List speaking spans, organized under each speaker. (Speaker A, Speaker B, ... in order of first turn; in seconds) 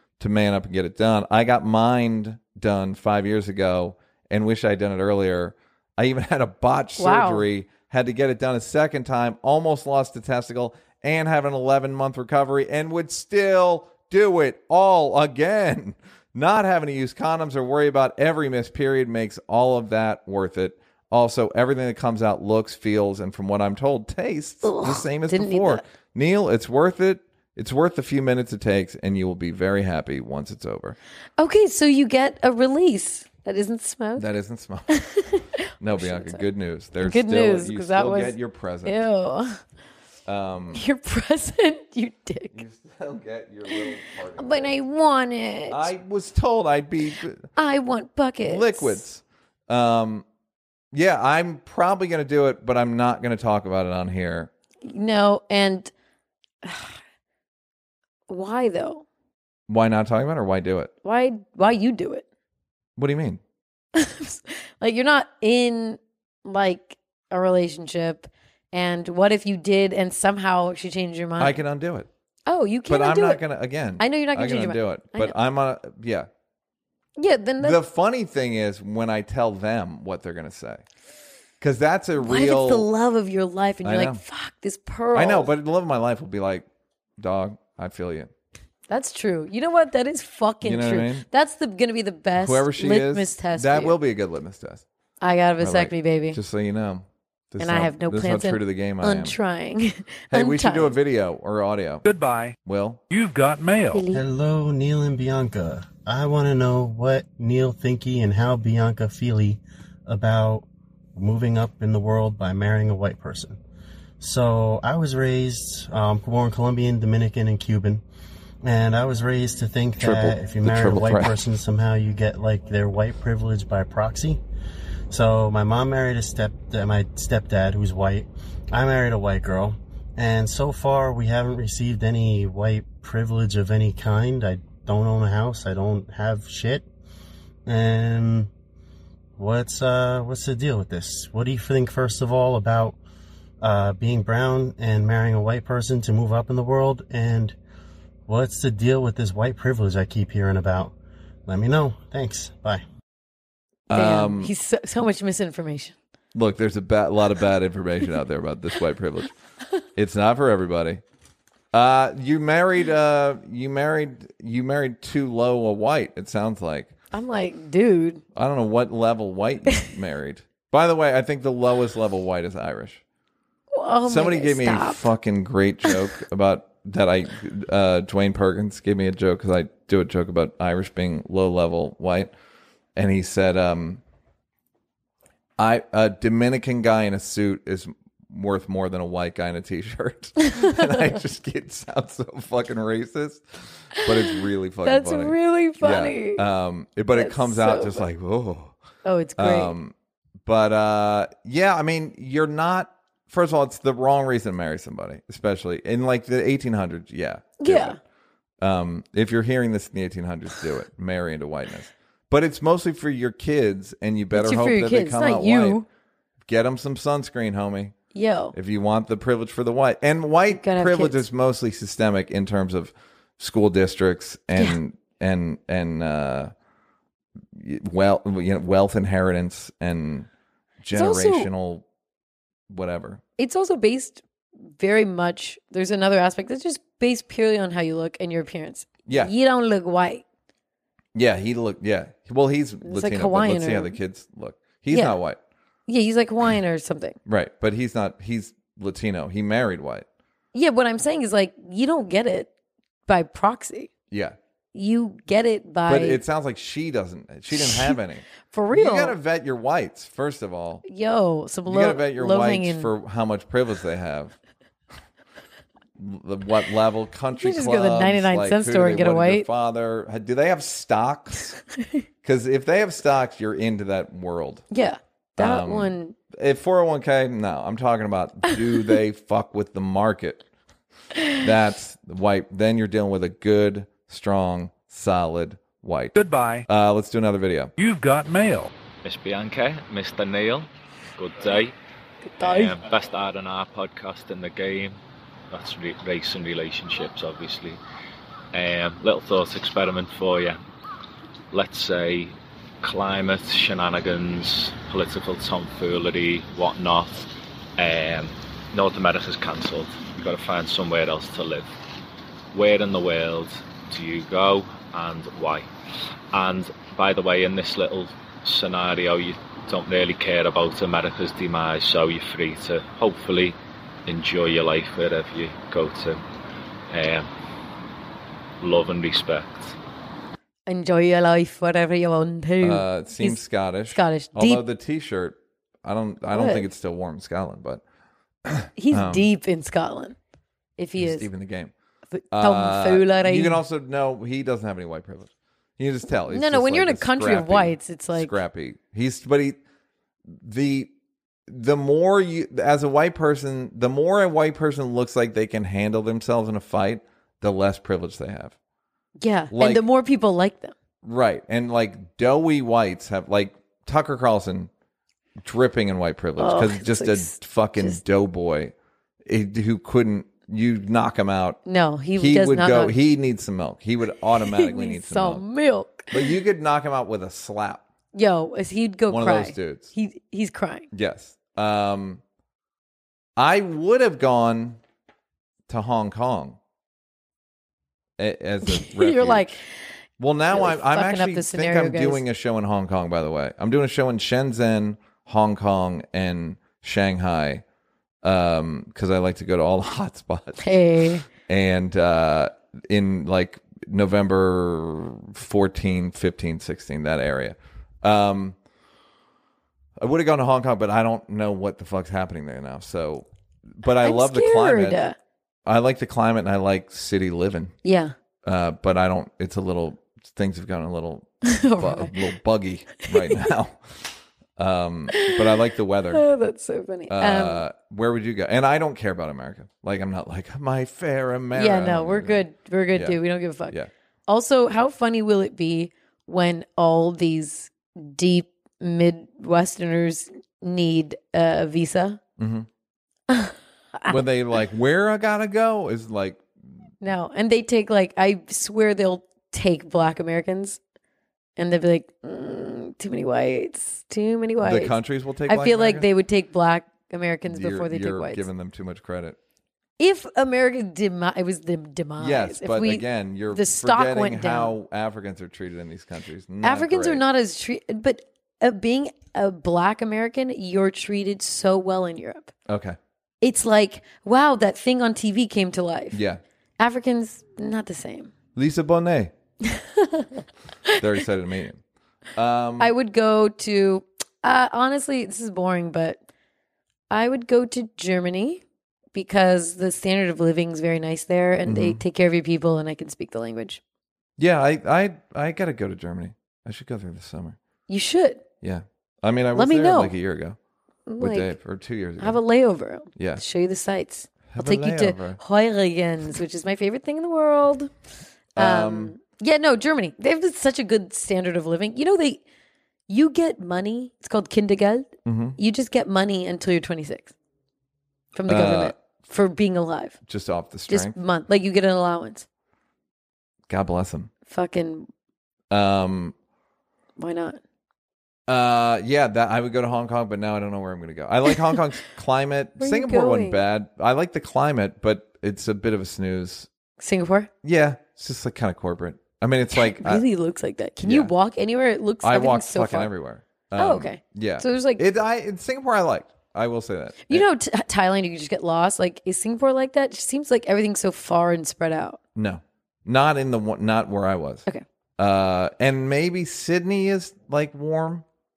Speaker A: 0.2-31.0, 34.1-35.0, 35.8-39.0, 40.3-40.8, 42.5-44.7, 45.7-47.5, 48.4-50.2, 50.9-54.5, 59.7-60.9, 63.0-63.4, 71.4-72.1, 72.9-76.3, 77.6-80.8, 81.6-82.9, 83.8-84.2, 85.1-86.7, 87.2-88.3, 90.6-91.2, 92.4-94.8, 95.6-99.4, 100.3-102.0, 102.6-103.0, 120.0-121.4, 153.9-154.5, 156.3-159.3, 159.9-161.0, 161.7-166.9, 168.3-173.0, 174.0-182.3, 182.9-184.0, 185.6-198.7, 199.4-208.0, 208.6-215.8, 216.4-217.9, 218.5-226.5, 227.5-230.3, 230.8-231.8, 232.7-233.2, 239.1-239.3, 241.1-245.4, 247.2-250.1, 254.1-254.4, 255.9-260.8, 261.6-264.4, 266.0-271.6, 272.2-274.7, 275.4-280.4, 281.4-286.1, 286.7-287.7, 332.6-337.8, 338.4-339.3, 341.0-341.7, 342.3-349.6, 350.3-350.9, 351.5-358.5, 359.5-359.8, 361.0-364.7, 365.4-368.7, 369.2-371.6, 372.1-375.4, 376.1-377.8, 379.1-379.9, 380.9-382.2, 383.4-384.8, 385.7-386.6, 388.2-389.6, 390.2-397.6, 398.2-400.6, 401.3-408.6, 410.0-413.3, 413.8-415.0, 415.6-417.7, 418.4-426.2, 427.1-433.9, 442.4-442.7, 444.1-446.4, 454.6-456.1, 457.5-459.4, 462.2-467.2, 472.7-473.0, 476.1-476.4, 478.5-479.3, 480.9-481.8, 482.4-482.9, 491.6-492.0, 494.4-497.6, 498.6-500.6, 501.2-502.4, 503.1-503.4, 504.5-505.4, 508.5-509.1, 515.2-515.6, 518.5-518.9, 520.2-521.1, 523.7-524.3, 525.7-526.3, 528.5-536.7, 537.6-540.2, 541.0-541.3, 542.2-547.5, 552.3-554.6, 555.2-558.2
Speaker B: 7.0-7.5, 24.6-25.8, 31.4-34.3, 34.9-35.4, 36.0-36.4, 37.0-39.6, 40.7-42.6, 43.7-45.9, 47.5-49.0, 54.8-55.9, 56.6-57.0, 58.3-59.0, 61.0-62.2, 63.9-71.6, 72.5-73.4, 74.0-75.3, 77.2-77.8, 82.2-85.5, 88.9-94.0, 95.2-96.4, 97.6-101.0, 103.9-104.2, 153.9-155.9, 167.1-168.2, 173.7-175.1, 190.5-191.0, 194.8-196.4, 197.1-198.1, 199.0-199.8, 207.6-208.0, 214.3-215.8, 218.1-218.5, 220.5-221.2, 230.9-231.5, 233.4-234.2, 234.8-240.2, 242.8-243.9, 244.9-245.2, 245.9-247.2, 250.5-252.5, 253.1-253.9, 254.7-256.2, 257.5-259.1, 260.8-262.9, 267.4-269.5, 274.7-276.1, 292.3-292.8, 330.7-333.4, 333.9-334.6, 336.3-336.7, 338.8-340.2, 340.8-341.3, 342.1-343.6, 346.3-348.3, 359.2-360.7, 366.4-368.0, 371.6-372.9, 374.3-376.3, 378.1-380.9, 388.6-389.9, 390.5-392.2, 400.6-401.2, 414.0-415.1, 417.8-418.1, 421.4-422.1, 423.0-423.4, 425.1-425.4, 426.1-427.6, 431.5-433.8, 434.3-442.2, 443.3-444.2, 447.0-450.8, 451.6-455.0, 455.5-458.4, 460.0-464.7, 466.6-472.5, 473.4-476.2, 476.8-478.3, 479.6-481.0, 482.8-486.2, 487.1-488.6, 489.1-493.8, 497.9-498.4, 499.5-500.1, 501.1-501.5, 502.2-507.9, 508.6-512.4, 513.1-517.3, 518.3-520.2, 520.9-522.5, 524.5-525.1, 527.2-527.6, 532.8-533.6, 537.0-537.5, 539.7-543.1, 543.8-545.0, 547.3-552.2
Speaker C: 102.0-102.5, 103.1-104.0, 286.1-286.7, 287.8-288.7
Speaker D: 104.1-113.6, 114.2-118.0, 118.6-124.4, 125.1-136.8, 137.7-138.5, 139.4-143.0, 143.6-147.6, 148.3-150.9, 151.4-152.8
Speaker E: 289.0-291.8, 292.4-297.8, 298.5-300.6, 301.5-311.7, 312.5-315.7, 316.3-326.2, 326.9-327.3, 328.6-329.8